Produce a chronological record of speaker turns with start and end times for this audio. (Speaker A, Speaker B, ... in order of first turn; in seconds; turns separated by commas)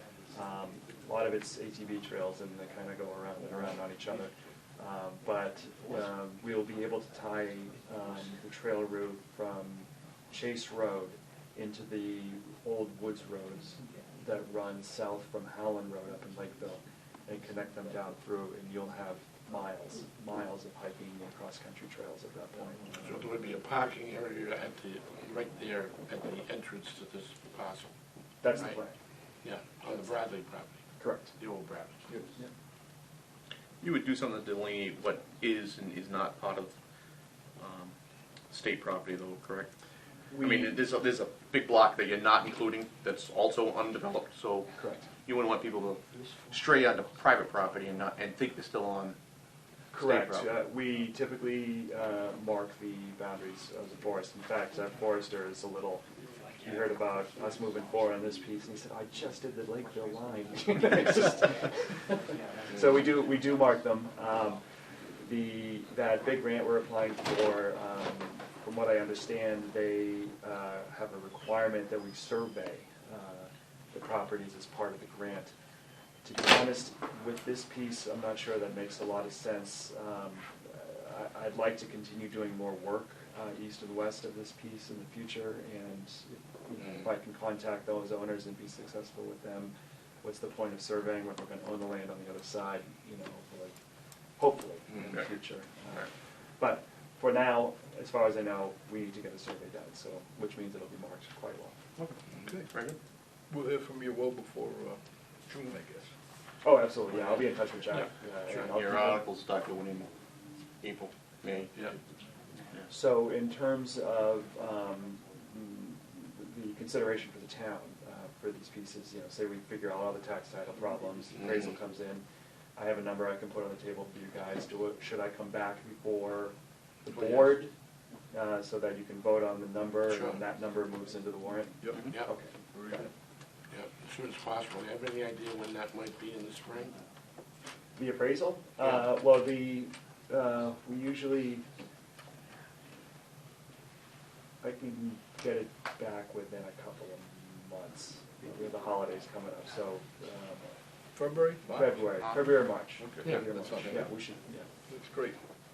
Speaker A: 0.3-23.2, Speaker B: 23.0-27.9, Speaker A: 28.4-28.9, Speaker B: 29.4-30.8, Speaker A: 31.0-31.3, Speaker B: 31.4-32.1, Speaker C: 33.8-36.7, Speaker C: 37.6-37.9, Speaker C: 38.5-39.7, Speaker A: 40.3-40.8, Speaker C: 40.4-44.7, Speaker A: 44.8-45.1, Speaker C: 45.2-49.2, Speaker C: 49.9-50.5, Speaker A: 49.9-56.0, Speaker A: 56.6-62.1, Speaker A: 62.7-64.6, Speaker A: 65.2-75.5, Speaker A: 76.2-93.8, Speaker A: 94.4-101.8, Speaker C: 94.9-95.3, Speaker C: 102.0-103.0, Speaker D: 103.5-106.1, Speaker A: 106.6-109.2, Speaker C: 108.5-110.1, Speaker C: 110.8-111.7, Speaker A: 112.9-122.2, Speaker A: 122.8-126.5, Speaker A: 127.0-127.7, Speaker A: 128.3-133.0, Speaker B: 130.1-130.4, Speaker D: 132.7-133.1, Speaker B: 133.7-137.0, Speaker A: 138.0-141.7, Speaker A: 144.6-150.7, Speaker D: 151.2-151.9, Speaker A: 151.7-154.7, Speaker C: 152.2-153.7, Speaker D: 153.3-154.1, Speaker D: 154.9-155.4